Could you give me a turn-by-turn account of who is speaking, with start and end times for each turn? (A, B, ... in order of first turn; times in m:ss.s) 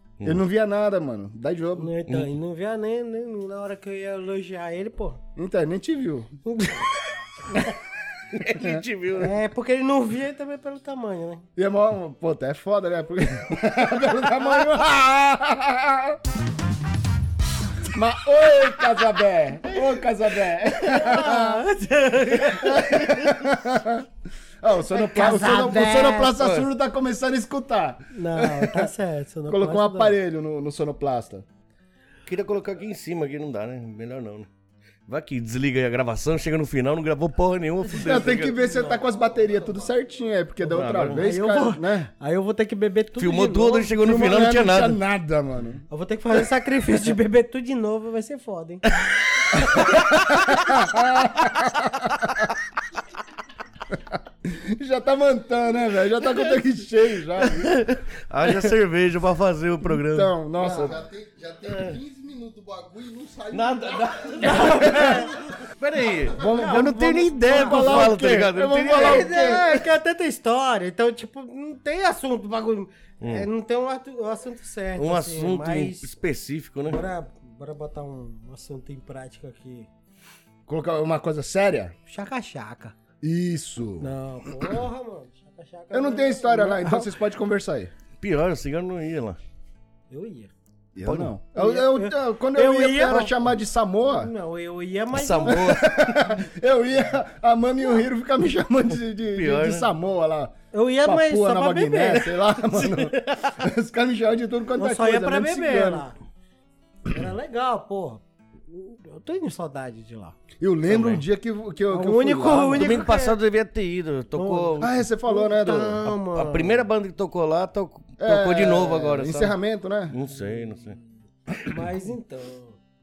0:00.2-0:01.9 A
0:01.8-0:05.2 B
0:05.4-0:06.3 A
0:06.4-0:07.7 B
0:08.3-0:09.3 C
0:08.5-0:08.8 A
0:09.2-0:11.4 B
0:11.6-0:16.2 A
0:17.8-0:21.6 A
0:20.6-0:23.0 B
0:22.4-0:24.1 A
0:22.8-0:23.4 C
0:24.6-0:28.9 A
0:24.9-0:26.4 B
0:26.4-0:26.7 C
0:28.1-0:30.2 B
0:29.5-0:31.4 A
0:32.2-0:34.5 C
0:35.1-0:38.5 C
0:37.9-0:42.1 A
0:38.4-0:38.8 B
0:38.8-0:39.4 D
0:40.6-0:41.2 C
0:41.1-0:44.0 B
0:43.2-0:45.0 C
0:44.0-0:45.8 A
0:45.9-0:49.0 B
0:49.5-0:50.0 B
0:49.6-0:52.5 A
0:53.9-0:57.8 A
0:57.4-1:00.3 C
1:00.0-1:01.0 A
1:00.6-1:04.6 D
1:01.7-1:02.0 C
1:03.5-1:09.5 C
1:04.4-1:05.3 B
1:04.6-1:05.3 A
1:06.3-1:09.8 A
1:06.4-1:08.2 B
1:08.8-1:16.1 B
1:13.2-1:13.5 C
1:15.0-1:17.0 C
1:16.8-1:19.9 B
1:20.7-1:21.9 A
1:22.1-1:22.9 B
1:23.2-1:24.1 A
1:24.0-1:27.1 B
1:25.9-1:27.9 A
1:28.2-1:29.4 C
1:30.1-1:30.5 B
1:30.9-1:34.3 A
1:31.0-1:31.3 C
1:31.6-1:33.5 B
1:34.0-1:35.8 B
1:35.1-1:36.2 C
1:35.5-1:46.0 A
1:39.3-1:39.9 C
1:40.7-1:43.2 B
1:44.8-1:46.1 B
1:47.1-1:50.4 B
1:50.6-1:53.0 A
1:50.9-1:51.2 C
1:51.9-1:53.4 B
1:52.8-1:55.0 C
1:54.3-1:56.8 B
1:54.8-1:56.0 A
1:56.0-1:59.6 C
1:58.2-2:00.1 A
2:00.1-2:01.0 C
2:00.3-2:01.0 B
2:01.6-2:02.8 B